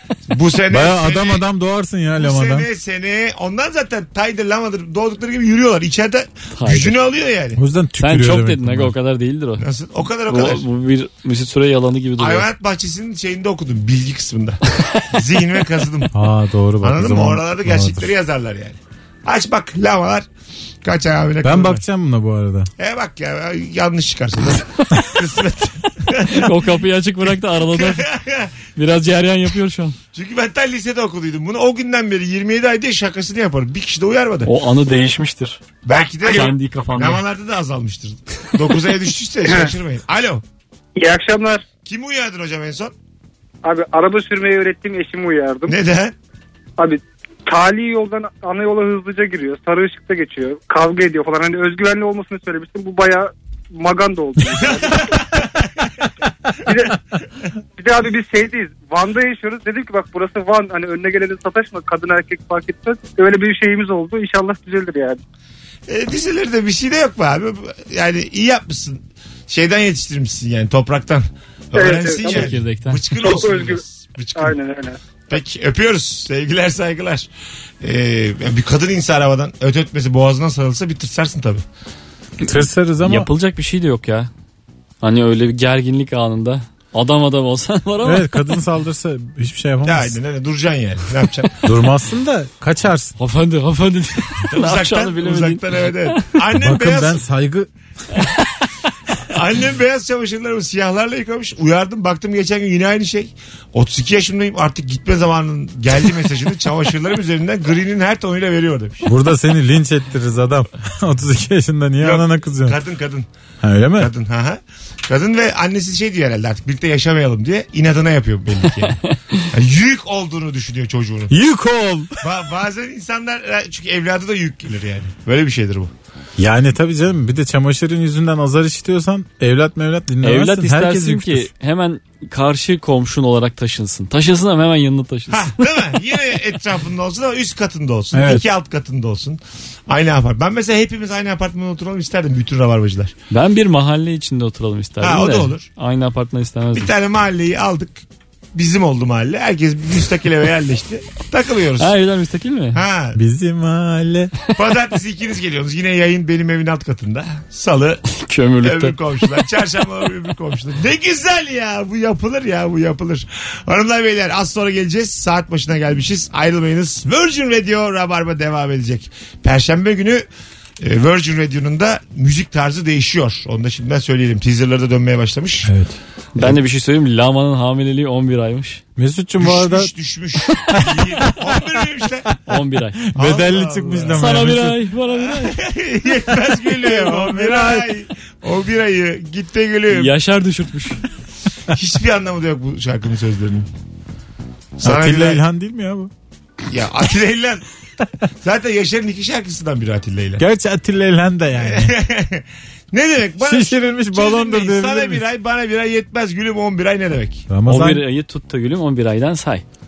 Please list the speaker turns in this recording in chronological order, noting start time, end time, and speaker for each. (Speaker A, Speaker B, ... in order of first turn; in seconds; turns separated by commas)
Speaker A: 0.3-1.4, Speaker B: 0.7-2.7, Speaker A: 2.2-7.6, Speaker C: 6.5-7.0, Speaker B: 7.5-8.9, Speaker C: 8.0-9.7, Speaker A: 9.6-10.6, Speaker C: 10.3-12.5, Speaker A: 12.2-16.1, Speaker B: 16.1-18.1, Speaker A: 16.8-20.3, Speaker A: 20.8-21.8, Speaker B: 21.4-22.7, Speaker A: 22.8-26.6, Speaker C: 26.3-28.1, Speaker A: 27.7-28.6, Speaker C: 28.8-30.0, Speaker A: 30.1-34.5, Speaker C: 34.4-35.6, Speaker A: 35.8-40.4, Speaker C: 36.2-37.2, Speaker D: 39.5-39.7, Speaker D: 41.0-41.6, Speaker A: 41.9-42.9, Speaker D: 43.6-45.8, Speaker A: 45.7-46.1, Speaker D: 46.8-55.2, Speaker A: 54.6-55.9, Speaker D: 56.7-57.0, Speaker D: 57.8-65.2, Speaker A: 65.9-74.6, Speaker D: 71.8-72.5, Speaker C: 72.1-73.0, Speaker D: 73.2-73.8, Speaker D: 74.4-75.0, Speaker A: 75.3-77.3, Speaker A: 77.8-81.6, Speaker B: 82.4-83.3, Speaker C: 83.0-84.3, Speaker C: 85.0-88.5, Speaker B: 88.0-90.2, Speaker A: 89.8-91.6, Speaker B: 91.7-93.2, Speaker C: 93.2-96.2, Speaker A: 94.5-97.2, Speaker B: 96.6-97.7, Speaker A: 99.3-109.1, Speaker B: 109.0-112.8, Speaker A: 112.0-113.3, Speaker B: 113.6-114.1, Speaker A: 114.0-121.3, Speaker B: 121.3-122.2, Speaker A: 122.2-125.9, Speaker B: 126.4-131.5, Speaker C: 130.2-135.6, Speaker A: 135.3-143.1, Speaker B: 138.1-138.5, Speaker C: 143.3-146.9, Speaker A: 145.0-145.7, Speaker A: 146.7-151.9, Speaker C: 151.8-152.8, Speaker A: 152.7-153.2, Speaker B: 153.2-154.3, Speaker A: 154.6-158.0, Speaker C: 158.2-159.0, Speaker A: 158.6-170.2, Speaker A: 170.8-175.7, Speaker B: 175.7-176.0, Speaker C: 176.3-178.8, Speaker B: 179.0-179.9, Speaker A: 179.4-182.3, Speaker B: 180.7-181.6, Speaker C: 182.5-183.0, Speaker B: 183.0-184.8, Speaker A: 183.2-184.4, Speaker C: 184.2-185.6, Speaker A: 185.2-190.1, Speaker B: 186.3-187.9, Speaker C: 189.9-191.0, Speaker A: 191.7-193.7, Speaker A: 194.8-195.4, Speaker B: 194.8-196.1, Speaker A: 196.7-197.7, Speaker A: 198.4-200.4, Speaker B: 200.4-201.9, Speaker A: 201.6-207.5, Speaker B: 203.4-205.2, Speaker B: 207.5-208.0, Speaker C: 207.7-209.6